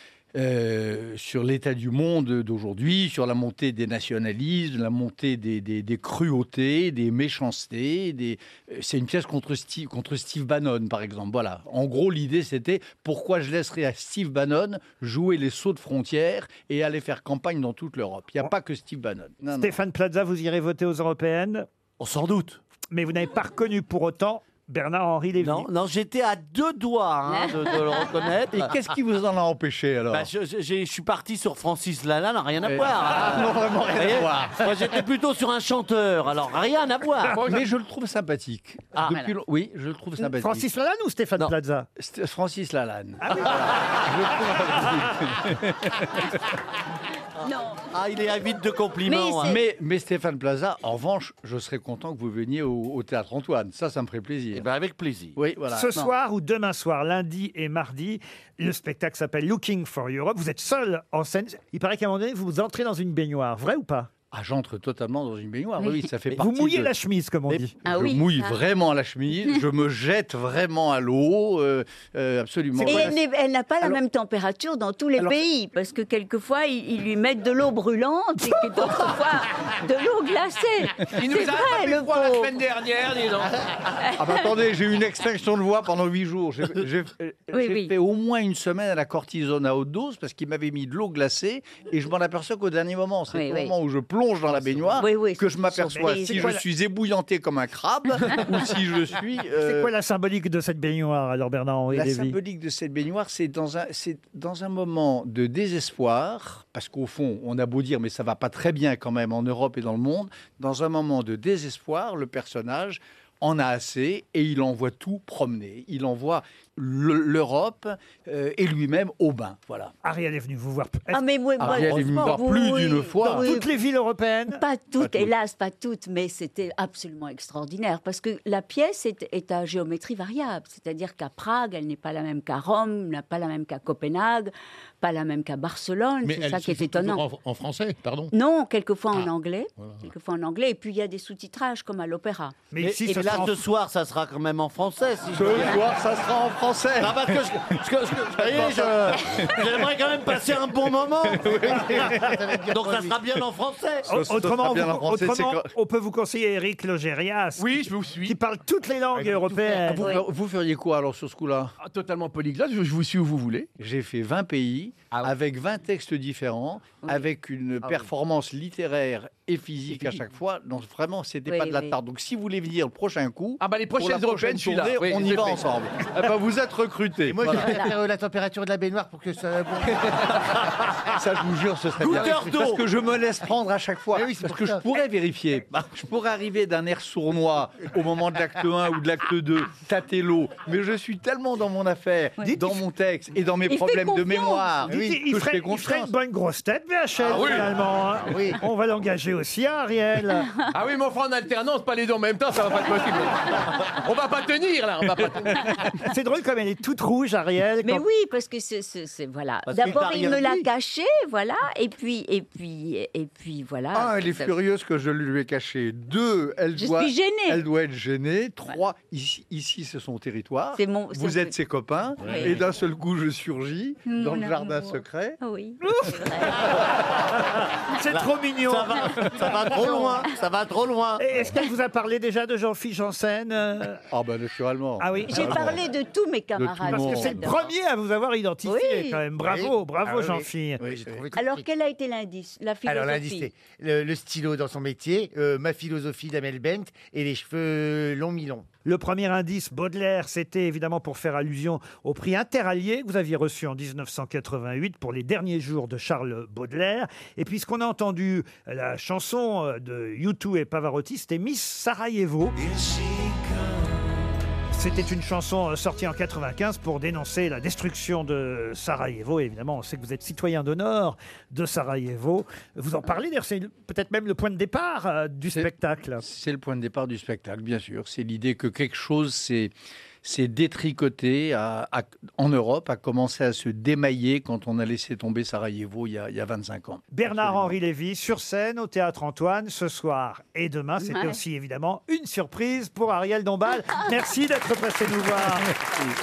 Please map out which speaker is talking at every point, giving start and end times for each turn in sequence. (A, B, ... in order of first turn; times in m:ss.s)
0:00.3-0:19.8 A
0:19.5-0:21.7 B
0:22.0-0:22.6 C
0:22.9-0:25.7 B
0:25.4-0:28.7 C
0:28.5-0:30.3 A
0:30.1-0:37.4 C
0:32.6-0:35.0 A
0:37.3-0:37.7 D
0:37.4-0:40.7 A
0:39.1-0:39.3 E
0:40.2-0:41.9 B
0:42.0-0:46.2 A
0:43.2-0:43.7 B
0:44.7-0:45.2 B
0:47.4-0:47.8 E
0:47.9-0:49.6 C
0:49.0-0:49.6 E
0:49.4-0:54.7 A
0:54.5-0:55.4 C
0:55.4-0:55.9 A
0:55.7-1:04.1 B
1:04.3-1:06.9 A
1:06.3-1:07.8 B
1:07.5-1:13.2 A
1:07.8-1:08.6 E
1:12.8-1:22.5 E
1:21.2-1:23.6 D
1:24.0-1:24.3 E
1:24.2-1:39.9 A
1:27.5-1:27.9 E
1:33.3-1:33.7 E
1:35.0-1:36.6 E
1:35.9-1:36.6 B
1:39.6-1:42.4 B
1:41.9-1:59.9 A
2:00.0-2:02.0 B
2:01.1-2:03.7 E
2:01.6-2:03.5 A
2:01.6-2:02.3 C
2:03.4-2:04.6 B
2:04.6-2:17.2 E
2:05.0-2:05.3 A
2:16.2-2:18.3 F
2:18.3-2:22.6 E
2:22.7-2:23.6 B
2:22.8-2:25.9 C
2:25.3-2:30.4 A
2:27.0-2:34.1 C
2:31.3-2:32.1 A
2:31.4-2:33.2 G
2:34.1-2:40.2 B
2:34.1-2:35.7 A
2:37.6-2:38.4 D
2:39.2-2:39.5 G
2:39.6-2:41.7 A
2:40.0-2:40.3 E
2:41.8-2:43.7 D
2:43.8-2:57.9 A
2:51.5-2:52.0 E
2:53.6-2:55.4 D
2:57.2-3:01.2 G
2:57.6-2:57.9 E
3:01.1-3:16.1 A
3:02.0-3:02.8 C
3:02.0-3:02.6 G
3:04.1-3:04.8 G
3:12.4-3:12.7 E
3:13.7-3:14.7 E
3:14.9-3:20.5 B
3:17.2-3:17.6 G
3:17.3-3:17.7 D
3:18.2-3:18.6 G
3:20.7-3:25.8 D
3:26.0-3:28.0 B
3:27.8-3:34.6 E
3:29.7-3:30.7 C
3:33.9-3:45.4 A
3:36.8-3:37.6 E
3:40.8-3:41.6 E
3:42.2-3:42.6 E
3:42.2-3:42.6 F
3:44.1-3:46.7 E
3:45.8-3:46.6 B
3:47.9-3:50.1 B
3:48.1-3:51.2 C
3:51.2-3:54.0 B
3:54.1-3:55.8 A
3:55.0-3:55.8 B
3:55.3-3:57.6 E
3:56.6-3:57.5 A
3:56.8-4:00.8 B
3:58.6-3:59.2 E
3:59.4-4:01.7 G
4:00.9-4:01.2 A
4:01.3-4:03.5 E
4:02.9-4:08.7 G
4:08.8-4:22.6 B
4:24.7-4:36.2 B
4:35.5-4:39.7 A
4:40.2-4:47.7 A
4:47.1-4:55.8 B
4:51.0-4:51.4 E